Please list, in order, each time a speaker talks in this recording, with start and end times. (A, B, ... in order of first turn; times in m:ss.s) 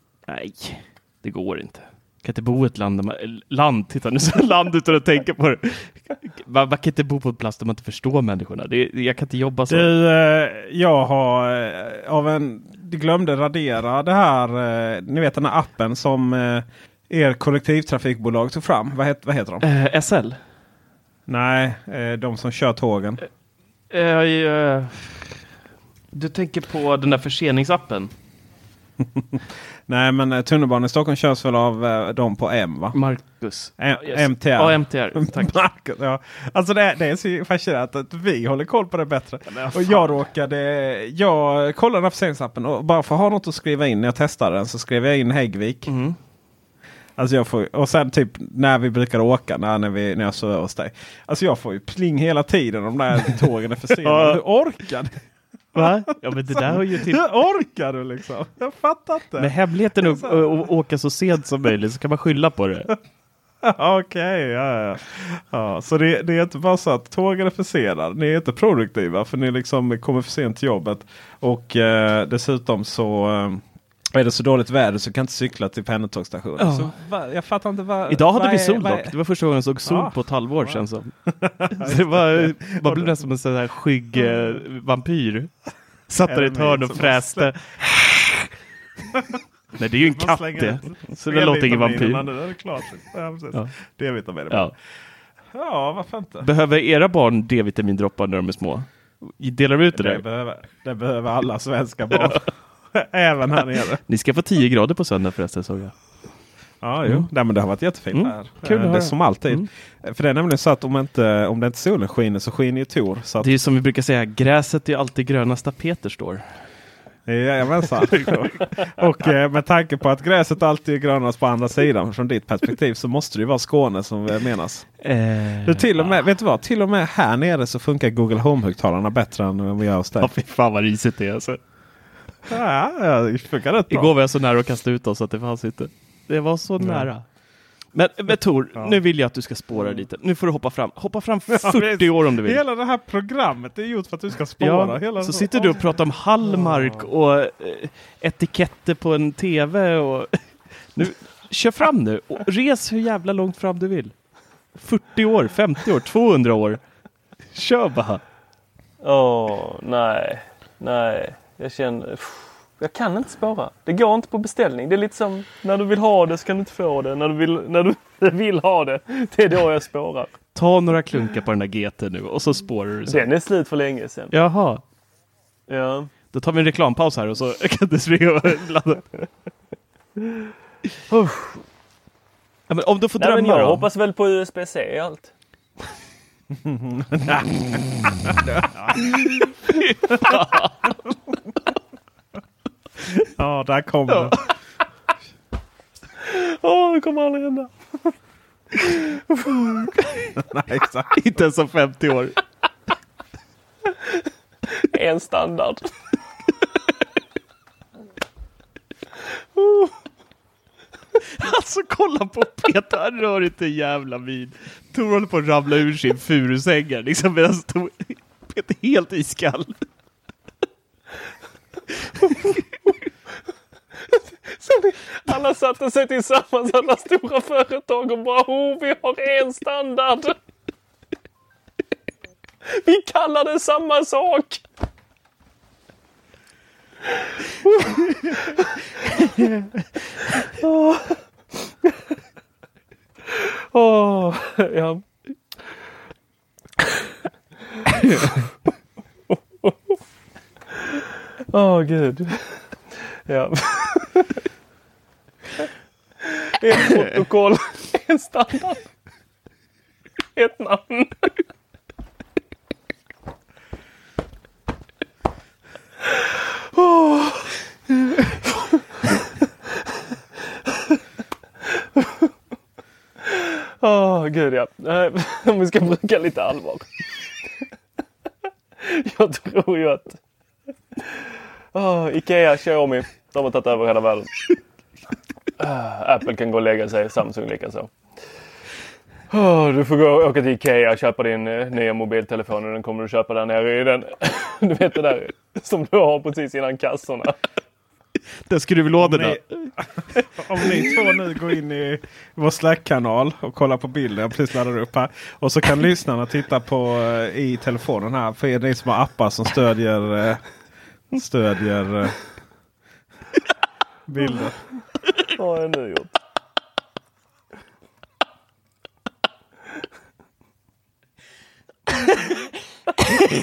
0:00.3-0:09.9 A
0:09.7-0:19.6 B
0:19.6-0:20.4 A
0:21.3-0:23.2 B
0:23.9-0:25.4 A
0:26.1-0:28.1 A
0:29.1-0:33.0 B
0:32.9-0:35.5 A
0:33.8-0:45.9 B
0:39.5-0:40.2 A
0:45.8-0:46.2 A
0:47.2-0:55.1 B
0:54.0-0:54.4 A
0:55.7-0:57.2 A
0:55.7-1:00.6 B
0:59.4-1:02.9 A
1:03.6-1:19.1 B
1:16.6-1:16.9 A
1:18.1-1:21.1 A
1:19.8-1:23.2 B
1:21.7-1:25.5 A
1:24.1-1:24.6 B
1:26.1-1:28.5 A
1:26.2-1:27.8 B
1:29.1-1:29.4 B
1:29.8-1:32.3 A
1:30.1-1:34.7 B
1:35.5-1:36.5 B
1:36.4-1:40.2 A
1:39.9-1:44.0 B
1:42.1-1:42.4 A
1:44.1-1:45.9 A
1:46.8-1:53.5 B
1:48.1-1:49.7 A
1:53.4-1:56.4 A
1:57.3-2:04.9 B
1:58.1-1:58.5 A
2:05.0-2:06.2 A
2:05.6-2:10.3 B
2:10.2-2:11.6 A
2:12.5-2:14.1 B
2:13.9-2:17.2 A
2:16.8-2:17.1 B
2:17.9-2:22.6 A
2:18.7-2:19.0 B
2:21.5-2:25.8 B
2:24.6-2:30.4 A
2:30.9-2:34.1 A
2:34.8-2:36.8 A
2:37.5-2:38.2 A
2:39.0-2:50.3 C
2:50.5-2:53.3 A
2:53.1-2:54.3 C
2:54.3-2:54.8 A
2:55.7-2:56.1 C
2:56.3-2:59.1 A
3:01.1-3:01.6 C
3:02.7-3:03.9 A
3:03.2-3:05.3 C
3:06.5-3:07.6 B
3:08.2-3:09.5 B
3:09.2-3:10.9 A
3:13.0-3:14.4 B
3:16.2-3:18.1 C
3:18.9-3:19.9 C
3:20.4-3:21.2 B
3:21.1-3:22.4 A
3:24.8-3:25.9 C
3:29.6-3:29.9 C
3:31.2-3:39.7 A
3:42.2-3:42.6 A
3:44.5-3:50.4 C
3:52.7-3:54.6 C
3:57.6-3:58.8 C
4:00.5-4:01.9 C
4:03.3-4:05.0 C
4:09.3-4:09.9 C
4:11.5-4:12.7 C
4:13.3-4:14.4 C
4:16.4-4:18.9 C
4:20.3-4:21.3 C
4:26.7-4:27.6 C
4:28.3-4:28.5 C
4:31.8-4:32.3 C
4:33.2-4:36.9 C
4:38.8-4:40.2 C
4:41.7-4:44.5 C
4:45.6-4:47.9 C
4:49.3-4:57.4 C
4:58.5-4:59.7 A
4:59.0-5:10.4 B
5:00.6-5:00.8 A
5:11.1-5:12.2 B
5:14.1-5:14.6 B
5:15.3-5:16.2 C